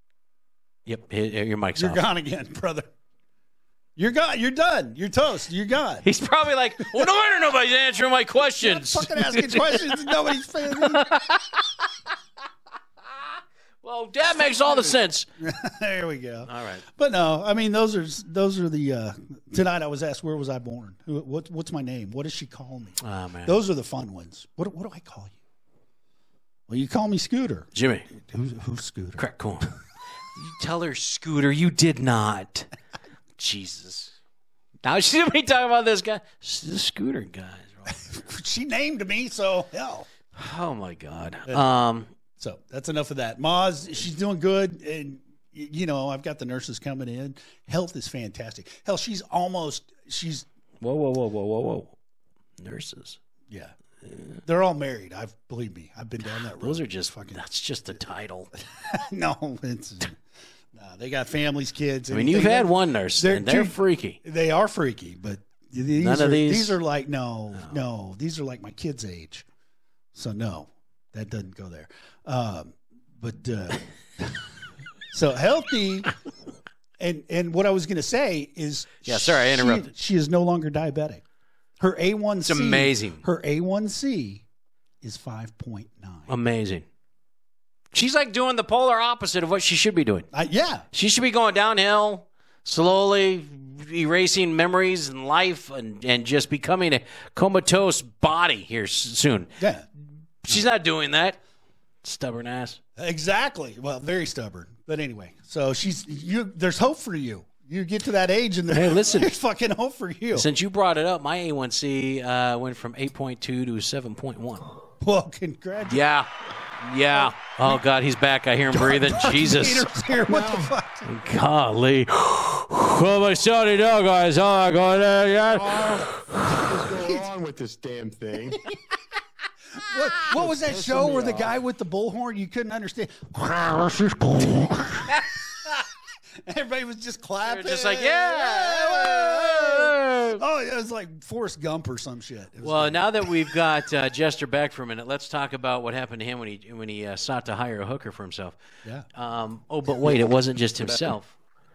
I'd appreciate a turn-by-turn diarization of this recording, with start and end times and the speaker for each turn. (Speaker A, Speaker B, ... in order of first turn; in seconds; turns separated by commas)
Speaker A: 0.9-2.0, Speaker B: 1.8-2.9, Speaker B: 4.0-6.1, Speaker A: 6.0-11.7, Speaker B: 8.6-11.2, Speaker A: 13.8-15.3, Speaker B: 14.3-25.4, Speaker A: 16.5-16.9, Speaker A: 23.0-23.6, Speaker B: 26.7-29.2, Speaker A: 27.7-28.1, Speaker A: 29.2-29.8, Speaker A: 30.4-32.7, Speaker A: 33.4-34.1, Speaker A: 34.8-38.0, Speaker B: 37.9-40.1, Speaker A: 40.3-42.1, Speaker B: 42.4-50.5, Speaker A: 50.8-52.0, Speaker A: 52.6-53.2, Speaker B: 53.5-53.7, Speaker B: 54.4-57.4, Speaker A: 56.6-58.5, Speaker B: 58.6-60.2, Speaker B: 60.7-69.5, Speaker A: 62.1-64.2, Speaker A: 66.0-66.8, Speaker B: 70.1-74.5, Speaker B: 75.1-76.1, Speaker B: 77.0-81.2, Speaker A: 79.0-79.9, Speaker B: 81.8-84.4, Speaker A: 82.5-83.2, Speaker B: 85.0-86.3, Speaker A: 86.3-86.8, Speaker A: 87.9-90.3, Speaker B: 90.3-90.8, Speaker A: 90.9-99.5, Speaker B: 99.6-99.9, Speaker A: 100.4-101.4, Speaker A: 102.0-102.8, Speaker B: 103.0-110.5, Speaker A: 108.7-109.3, Speaker A: 110.3-114.7, Speaker B: 115.0-116.0, Speaker A: 115.9-116.3, Speaker A: 116.8-119.9, Speaker B: 117.1-117.8, Speaker B: 118.7-121.1, Speaker C: 120.3-120.7, Speaker A: 121.0-126.6, Speaker C: 125.6-128.6, Speaker B: 127.0-127.2, Speaker B: 129.8-135.8, Speaker C: 130.3-131.6, Speaker B: 136.4-143.5, Speaker A: 137.4-140.4, Speaker A: 142.6-148.6, Speaker A: 149.1-151.3, Speaker C: 150.8-151.1